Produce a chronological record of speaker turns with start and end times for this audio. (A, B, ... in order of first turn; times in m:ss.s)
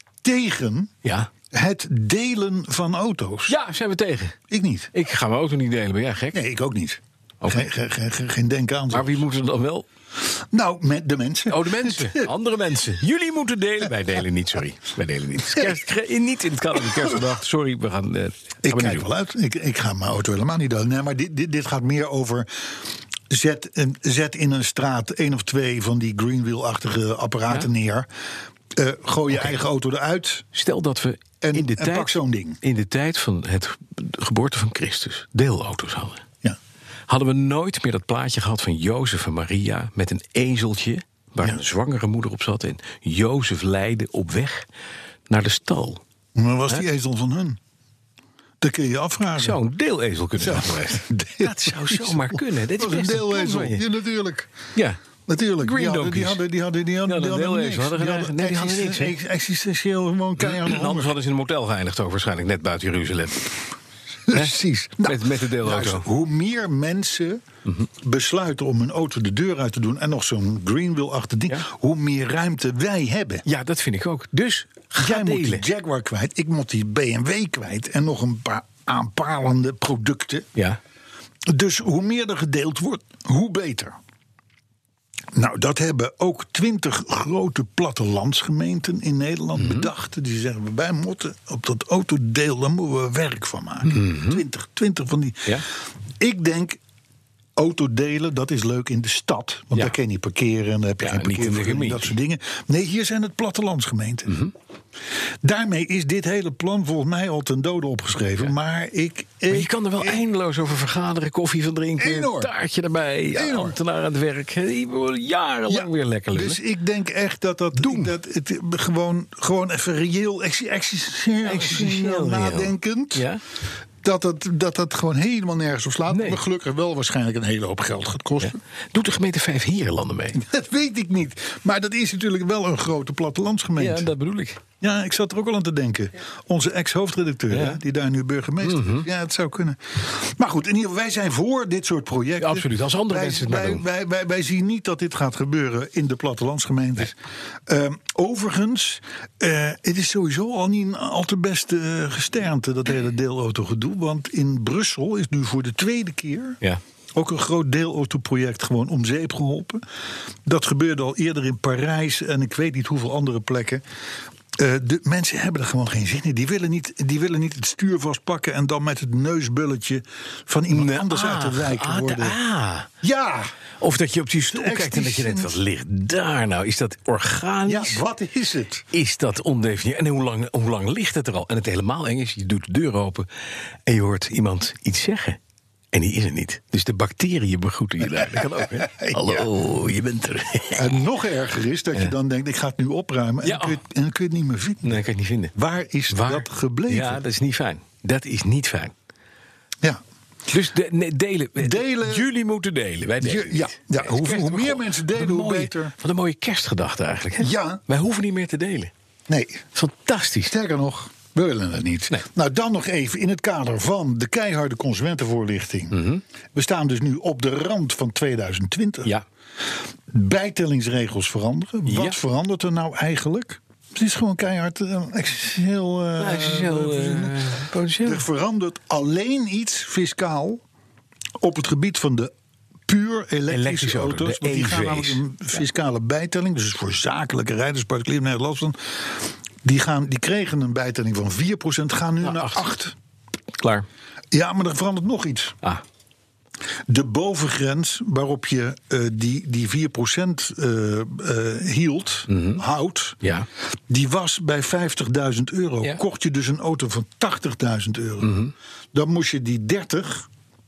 0:00.2-0:00.9 A
0:01.0-0:01.3 B
0:01.5-0:03.6 A
0:03.5-0:04.4 B
0:04.5-0:04.9 A
0:04.9-0:06.4 B
0:06.3-0:09.3 A
0:07.4-0:07.7 B
0:08.9-0:09.9 B
0:10.2-0:12.3 A
0:11.5-0:19.1 B
0:15.4-0:15.8 A
0:18.6-0:28.1 A
0:28.7-0:30.5 A
0:30.5-0:36.2 B
0:31.4-0:32.6 A
0:37.1-0:44.7 B
0:45.3-0:46.0 B
0:46.4-0:47.6 A
0:48.6-0:49.6 A
0:49.4-0:53.8 B
0:50.4-0:54.5 A
0:55.3-1:01.1 A
0:55.6-0:56.4 B
0:57.0-0:59.2 B
1:00.4-1:03.5 B
1:04.3-1:07.4 A
1:04.3-1:06.1 B
1:07.9-1:13.4 A
1:13.4-1:15.7 B
1:15.0-1:20.5 A
1:21.5-1:24.0 A
1:25.3-1:35.6 A
1:29.6-1:29.9 B
1:33.8-1:34.4 B
1:36.2-1:36.8 A
1:37.6-1:44.4 A
1:41.0-1:42.2 B
1:44.3-1:44.5 B
1:45.4-1:50.2 A
1:49.5-1:56.6 B
1:52.0-1:52.5 A
1:53.3-1:53.8 A
1:55.7-2:03.3 A
1:57.8-1:58.1 B
2:01.4-2:03.4 B
2:04.0-2:08.6 A
2:06.1-2:06.4 B
2:08.4-2:10.4 B
2:10.4-2:14.1 A
2:13.8-2:14.6 B
2:14.8-2:36.6 A
2:17.5-2:17.8 B
2:18.6-2:19.1 B
2:22.4-2:23.8 B
2:37.2-2:39.8 A
2:40.5-2:43.8 A
2:44.6-2:52.4 A
2:50.7-2:52.9 B
2:53.0-2:53.6 A
2:53.8-2:58.0 B
2:54.5-2:55.6 A
2:57.7-2:58.9 A
2:58.9-3:03.3 B
3:03.9-3:05.4 B
3:05.9-3:11.0 B
3:08.4-3:09.5 A
3:10.7-3:15.0 A
3:13.4-3:13.8 B
3:14.8-3:15.5 B
3:15.6-3:17.2 A
3:16.1-3:18.9 B
3:20.5-3:28.9 B
3:21.6-3:22.3 A
3:23.2-3:25.9 A
3:27.4-3:27.8 A
3:29.3-3:29.7 A
3:29.8-3:30.5 B
3:30.5-3:36.0 A
3:35.9-3:36.2 B
3:36.5-3:39.1 A
3:40.1-3:47.5 A
3:41.8-3:42.2 B
3:46.2-3:48.2 B
3:48.0-3:50.6 A
3:51.4-3:52.3 A
3:52.9-4:03.0 A
3:53.5-3:55.2 B
4:02.2-4:02.7 B
4:03.6-4:03.9 B
4:04.3-4:05.6 A
4:06.9-4:13.2 A
4:12.3-4:12.6 B
4:13.2-4:13.5 B
4:13.9-4:18.4 A
4:18.2-4:18.5 B
4:18.9-4:20.3 A